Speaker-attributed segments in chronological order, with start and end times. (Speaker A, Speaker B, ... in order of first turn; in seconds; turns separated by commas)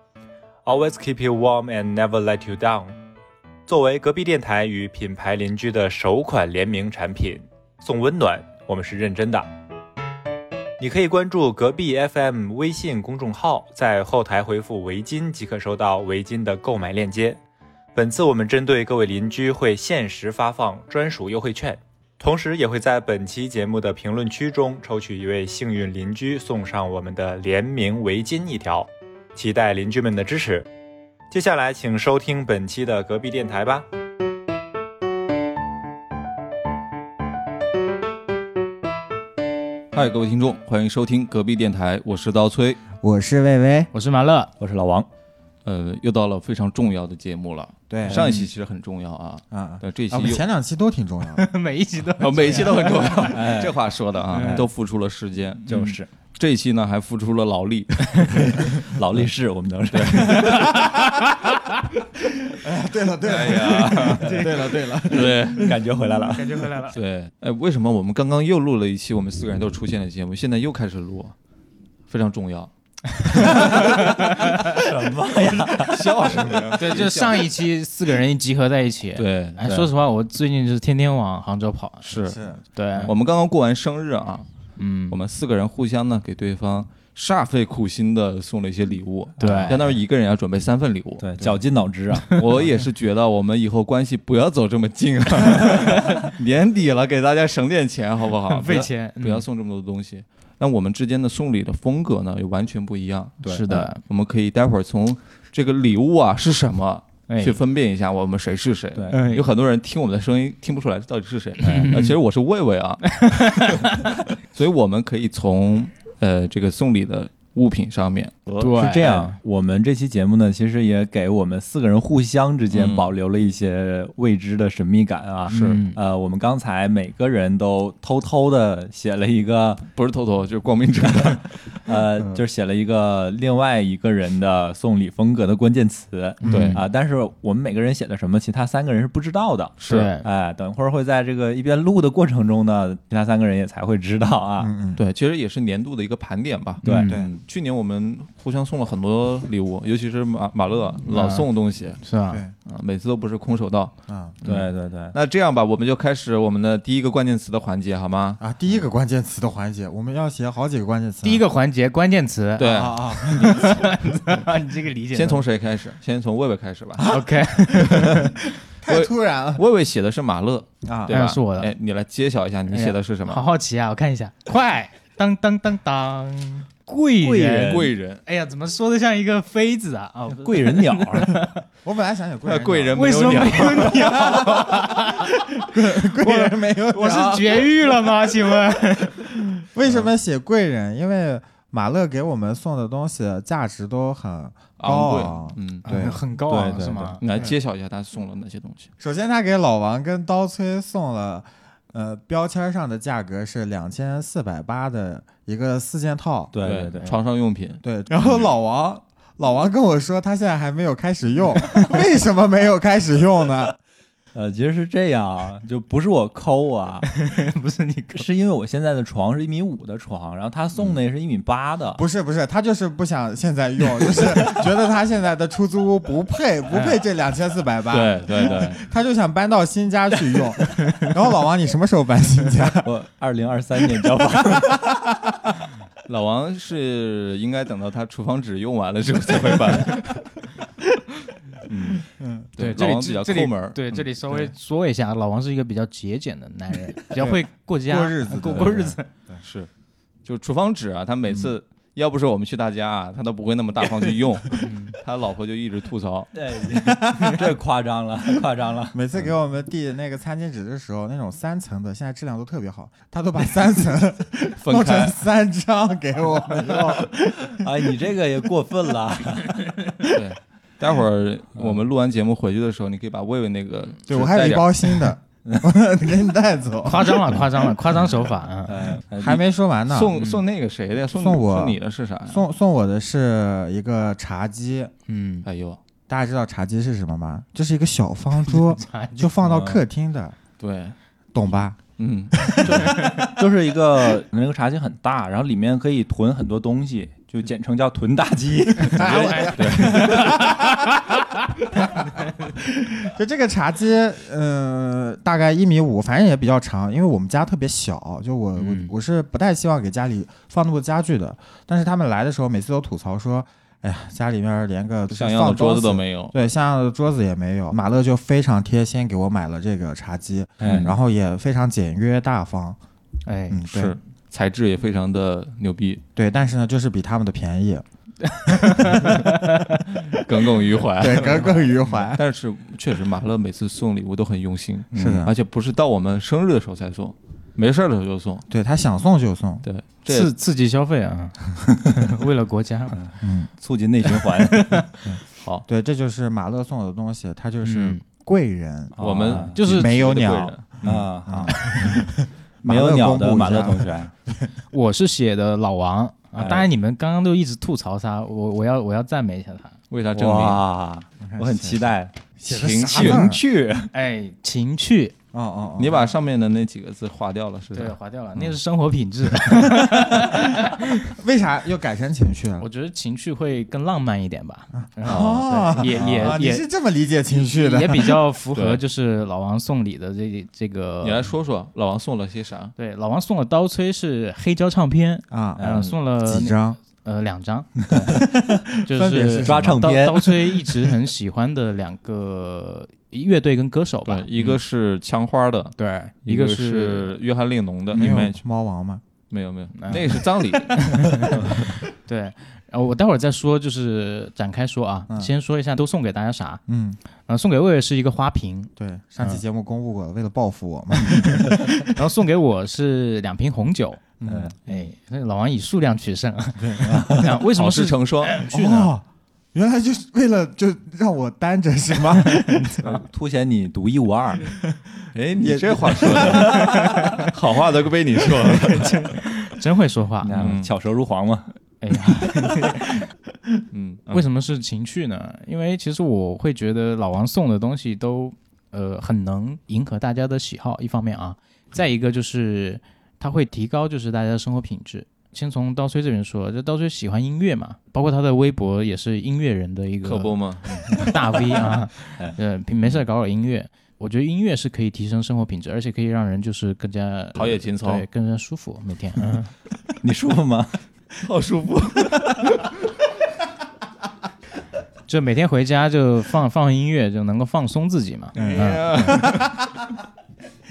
Speaker A: 0.7-2.9, Speaker A: 3.7-9.5, Speaker A: 10.8-17.4, Speaker A: 17.9-30.7, Speaker A: 31.3-33.9, Speaker B: 39.9-42.8, Speaker C: 43.0-43.9, Speaker D: 43.9-44.5, Speaker E: 44.6-45.1, Speaker B: 45.6-50.4, Speaker C: 47.9-48.3, Speaker C: 49.5-51.5, Speaker D: 51.4-53.4, Speaker B: 52.2-55.8, Speaker E: 53.3-53.8, Speaker D: 54.3-54.7, Speaker E: 55.7-56.1, Speaker B: 56.4-58.9, Speaker E: 58.6-60.7, Speaker B: 59.9-60.8, Speaker C: 60.5-61.0, Speaker C: 62.5-65.8, Speaker B: 63.2-65.8, Speaker E: 65.1-66.5, Speaker D: 66.3-67.0, Speaker B: 66.9-71.3, Speaker B: 72.1-72.7, Speaker D: 73.3-73.9, Speaker E: 73.4-76.6, Speaker B: 73.4-73.7, Speaker B: 75.8-77.5, Speaker D: 76.8-82.1, Speaker B: 79.2-79.8, Speaker B: 82.0-82.4, Speaker C: 82.2-82.6, Speaker D: 82.7-83.1, Speaker B: 83.0-84.5, Speaker D: 84.8-85.2, Speaker B: 85.1-91.6, Speaker D: 89.4-89.8, Speaker E: 89.4-89.8, Speaker E: 91.2-92.7, Speaker B: 92.3-113.8, Speaker D: 96.0-96.3, Speaker D: 98.5-99.5, Speaker E: 103.4-103.8, Speaker D: 103.5-104.0, Speaker D: 107.3-107.6, Speaker D: 109.1-109.5, Speaker D: 111.7-112.1, Speaker D: 113.2-114.0, Speaker B: 114.4-118.9, Speaker D: 118.6-119.3, Speaker E: 118.8-129.8, Speaker B: 122.7-123.1, Speaker B: 125.5-125.8, Speaker D: 125.5-126.0, Speaker B: 130.0-132.4, Speaker E: 131.0-144.7, Speaker B: 136.4-136.8, Speaker C: 136.5-136.8, Speaker B: 139.8-140.1, Speaker D: 139.8-140.3, Speaker C: 144.6-145.0, Speaker B: 145.0-152.0, Speaker D: 146.8-147.2, Speaker E: 146.8-147.1, Speaker D: 151.1-151.4, Speaker D: 152.0-152.4, Speaker B: 152.7-153.9, Speaker C: 154.1-154.4, Speaker E: 154.4-155.2, Speaker B: 155.1-158.4, Speaker C: 158.4-161.5, Speaker D: 161.2-165.4, Speaker B: 162.6-163.6, Speaker C: 162.6-163.9, Speaker B: 165.1-167.2, Speaker D: 167.0-168.4, Speaker B: 167.8-168.2, Speaker C: 168.8-169.6, Speaker B: 168.8-173.4, Speaker C: 170.8-171.2, Speaker D: 171.1-171.7, Speaker D: 172.7-181.6, Speaker E: 177.2-177.9, Speaker B: 177.6-178.2, Speaker E: 180.4-181.4, Speaker C: 181.8-187.7, Speaker B: 182.4-184.5, Speaker D: 182.9-185.3, Speaker D: 186.2-189.3, Speaker C: 189.6-196.2, Speaker B: 194.8-195.9, Speaker D: 195.8-197.2, Speaker E: 196.5-197.2, Speaker B: 197.2-198.9, Speaker C: 199.0-206.5, Speaker E: 206.5-207.1, Speaker B: 206.6-208.3, Speaker C: 207.8-213.8, Speaker E: 214.3-217.1, Speaker D: 217.1-218.3, Speaker E: 218.1-222.0, Speaker C: 222.0-232.9, Speaker B: 226.7-227.0, Speaker B: 227.9-228.8, Speaker E: 232.8-234.8, Speaker B: 236.1-240.4, Speaker E: 241.7-242.0, Speaker C: 242.2-242.5, Speaker B: 242.6-244.1, Speaker D: 242.6-249.1, Speaker C: 247.2-249.4, Speaker B: 249.4-249.7, Speaker B: 250.3-256.3, Speaker D: 254.6-254.9, Speaker E: 256.3-259.0, Speaker C: 256.9-257.4, Speaker C: 258.9-267.7, Speaker B: 264.6-265.2, Speaker E: 267.5-269.8, Speaker B: 270.1-274.9, Speaker C: 274.1-277.2, Speaker D: 276.9-278.8, Speaker E: 278.7-279.4, Speaker C: 279.2-280.1, Speaker B: 279.9-282.4, Speaker D: 280.2-280.4, Speaker C: 281.1-281.8, Speaker C: 282.3-284.9, Speaker D: 285.1-285.5, Speaker B: 285.4-285.8, Speaker C: 286.1-290.4, Speaker D: 288.6-289.2, Speaker E: 289.4-289.8, Speaker B: 290.6-290.9, Speaker C: 291.3-291.8, Speaker B: 292.0-293.1, Speaker C: 292.4-293.3, Speaker E: 293.0-300.2, Speaker C: 298.8-301.1, Speaker D: 299.4-300.6, Speaker B: 299.6-300.4, Speaker C: 301.7-322.8, Speaker D: 308.6-308.9, Speaker B: 315.1-316.4, Speaker E: 320.6-320.9, Speaker B: 320.7-320.9, Speaker D: 323.3-323.6, Speaker C: 323.5-324.0, Speaker B: 323.7-326.0, Speaker C: 326.2-327.8, Speaker D: 328.3-329.9, Speaker C: 328.5-329.2, Speaker B: 330.1-338.5, Speaker C: 331.0-332.2, Speaker C: 334.9-335.3, Speaker E: 335.0-335.3, Speaker C: 338.5-339.6, Speaker B: 339.6-340.3, Speaker D: 340.1-343.0, Speaker E: 342.9-344.8, Speaker C: 343.2-343.5, Speaker D: 344.4-345.0, Speaker C: 345.1-354.5, Speaker D: 347.6-348.0, Speaker E: 348.9-349.6, Speaker B: 349.0-350.6, Speaker D: 349.5-349.9, Speaker E: 350.8-352.1, Speaker E: 352.6-354.1, Speaker D: 354.7-359.8, Speaker E: 356.4-356.7, Speaker B: 359.9-360.6, Speaker E: 360.1-362.1, Speaker C: 361.2-363.4, Speaker B: 362.5-363.2, Speaker E: 363.0-363.9, Speaker D: 363.9-365.1, Speaker C: 365.3-366.1, Speaker B: 365.8-367.9, Speaker D: 367.7-370.9, Speaker C: 371.1-372.7, Speaker D: 372.6-376.6, Speaker C: 374.8-378.2, Speaker B: 375.1-375.5, Speaker E: 375.9-376.4, Speaker D: 377.4-381.3, Speaker B: 378.5-378.8, Speaker B: 381.0-382.7, Speaker D: 382.8-388.2, Speaker C: 385.3-386.8, Speaker E: 385.6-385.9, Speaker C: 388.1-389.8, Speaker D: 388.8-394.5, Speaker E: 389.4-390.8, Speaker B: 394.1-398.4, Speaker D: 395.8-397.2, Speaker C: 397.9-399.0, Speaker B: 399.3-401.3, Speaker D: 399.8-406.6, Speaker C: 406.7-407.0, Speaker D: 407.3-409.4, Speaker C: 408.8-411.9, Speaker D: 411.0-414.0, Speaker C: 414.2-414.5, Speaker E: 414.2-414.6, Speaker D: 414.7-418.9, Speaker C: 416.6-417.0, Speaker E: 416.8-417.3, Speaker B: 417.5-418.4, Speaker C: 418.5-422.7, Speaker D: 422.5-423.0, Speaker E: 422.8-424.6, Speaker B: 425.1-429.0, Speaker C: 425.4-426.6, Speaker D: 426.5-427.3, Speaker D: 428.6-430.5, Speaker E: 430.2-431.5, Speaker B: 430.4-430.7, Speaker D: 431.8-433.1, Speaker B: 433.7-434.2, Speaker D: 434.1-450.3, Speaker B: 450.0-451.0, Speaker D: 450.9-459.5, Speaker B: 457.4-458.1, Speaker E: 460.0-460.8, Speaker B: 461.2-462.8, Speaker D: 465.1-469.1, Speaker B: 468.4-469.5, Speaker C: 468.4-469.9